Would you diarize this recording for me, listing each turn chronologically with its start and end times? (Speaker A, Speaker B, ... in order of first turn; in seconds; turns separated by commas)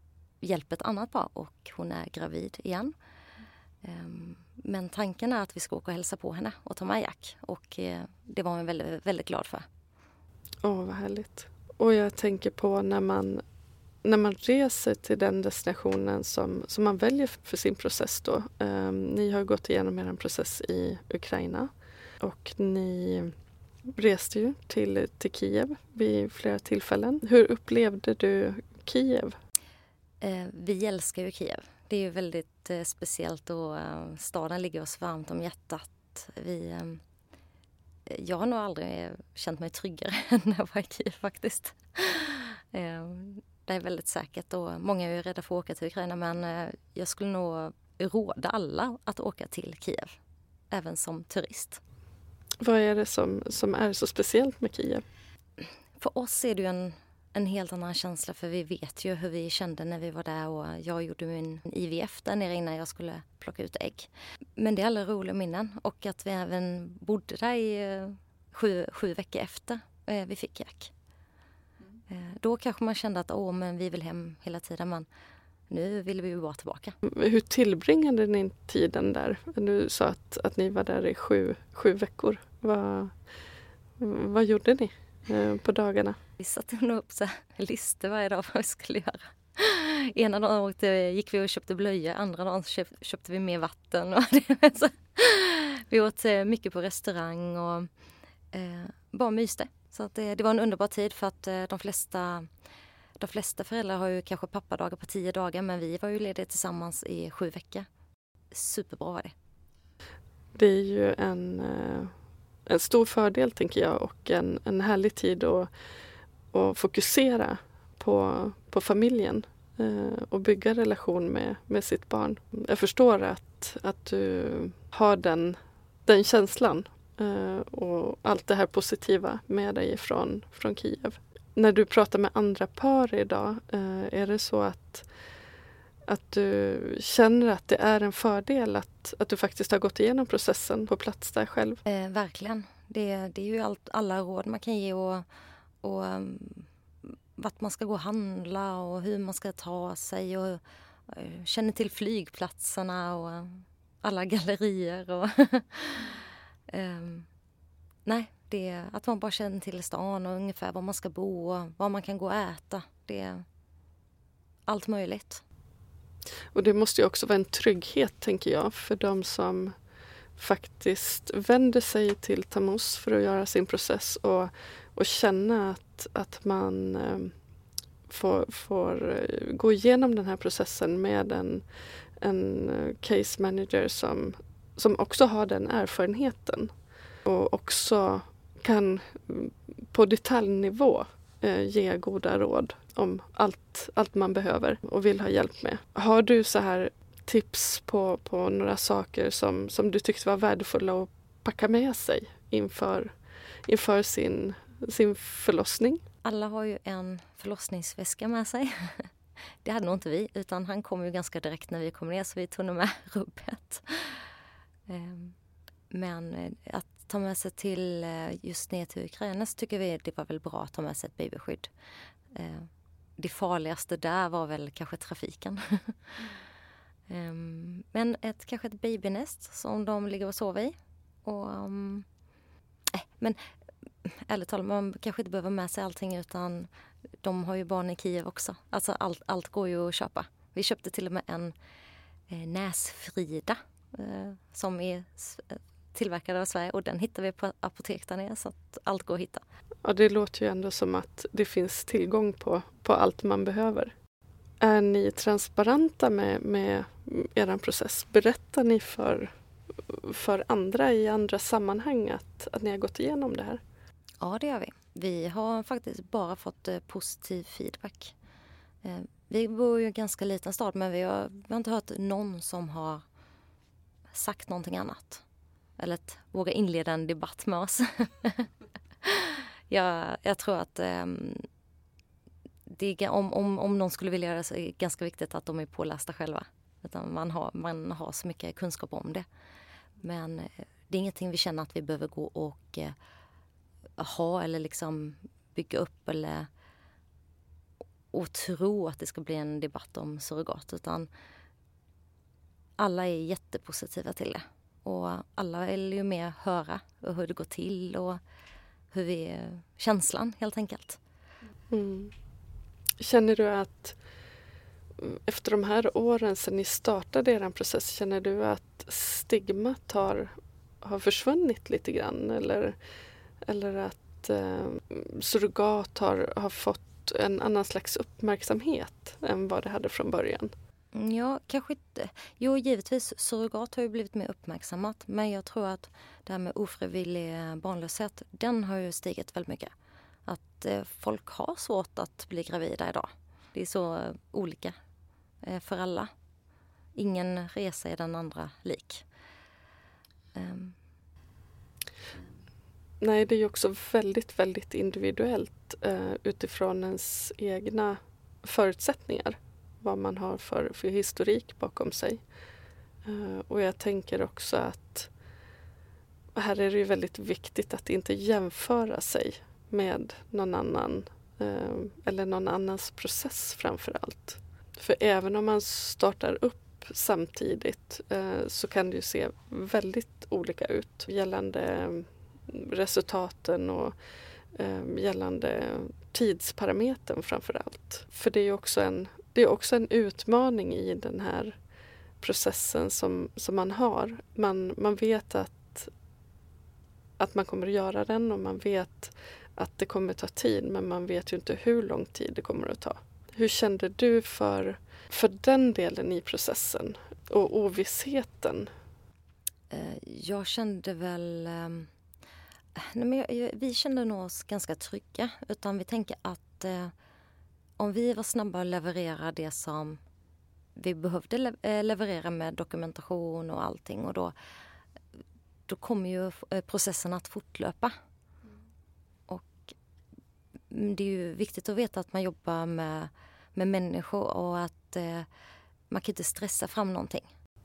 Speaker A: 0.4-2.9, Speaker A: 3.8-9.7, Speaker B: 10.6-13.4, Speaker B: 14.0-23.3, Speaker B: 24.0-29.4, Speaker A: 30.2-37.0, Speaker A: 38.1-50.2, Speaker A: 50.7-51.8, Speaker B: 52.6-55.0, Speaker A: 55.6-70.9, Speaker A: 72.1-75.1, Speaker A: 75.7-77.0, Speaker B: 77.0-83.1, Speaker B: 84.0-86.2, Speaker A: 86.4-97.9, Speaker A: 98.5-102.5, Speaker A: 103.2-107.9, Speaker A: 108.5-109.3, Speaker B: 110.5-112.1, Speaker B: 112.7-115.7, Speaker B: 116.5-135.1, Speaker B: 136.1-141.8, Speaker A: 141.8-145.3, Speaker A: 145.8-157.3, Speaker A: 158.1-163.4, Speaker A: 164.7-165.4, Speaker B: 166.5-169.8, Speaker B: 170.4-177.3, Speaker B: 178.1-181.7, Speaker B: 182.2-186.7, Speaker B: 187.3-203.1, Speaker B: 203.7-206.0, Speaker A: 206.2-209.1, Speaker A: 209.6-214.3, Speaker A: 214.9-215.3, Speaker A: 215.9-221.7, Speaker A: 222.3-226.3, Speaker A: 227.1-232.1, Speaker A: 232.9-236.7, Speaker A: 237.2-241.6, Speaker A: 242.3-249.4, Speaker B: 249.8-253.9, Speaker B: 254.6-259.3, Speaker B: 259.9-263.6, Speaker A: 264.2-268.1, Speaker A: 268.8-273.0, Speaker A: 274.1-275.2, Speaker A: 275.8-278.5, Speaker A: 279.0-281.5, Speaker A: 282.7-289.3, Speaker A: 290.0-293.0, Speaker A: 294.0-296.5, Speaker A: 298.1-301.1, Speaker A: 302.8-308.2, Speaker A: 308.9-311.0, Speaker B: 311.7-312.1, Speaker B: 313.0-314.0, Speaker B: 315.0-322.8, Speaker B: 323.5-330.5, Speaker A: 330.9-339.7, Speaker A: 340.3-344.8, Speaker A: 345.4-346.1, Speaker A: 346.9-349.1, Speaker A: 350.3-350.8, Speaker B: 353.0-362.2, Speaker B: 363.1-365.1, Speaker B: 366.4-383.9, Speaker B: 384.6-391.6, Speaker B: 392.2-395.9, Speaker B: 397.2-408.7, Speaker A: 409.7-411.9, Speaker A: 412.8-416.9, Speaker A: 417.8-420.0, Speaker A: 420.8-424.3, Speaker A: 425.7-427.9, Speaker A: 429.3-429.8, Speaker A: 430.7-435.3, Speaker A: 435.9-437.3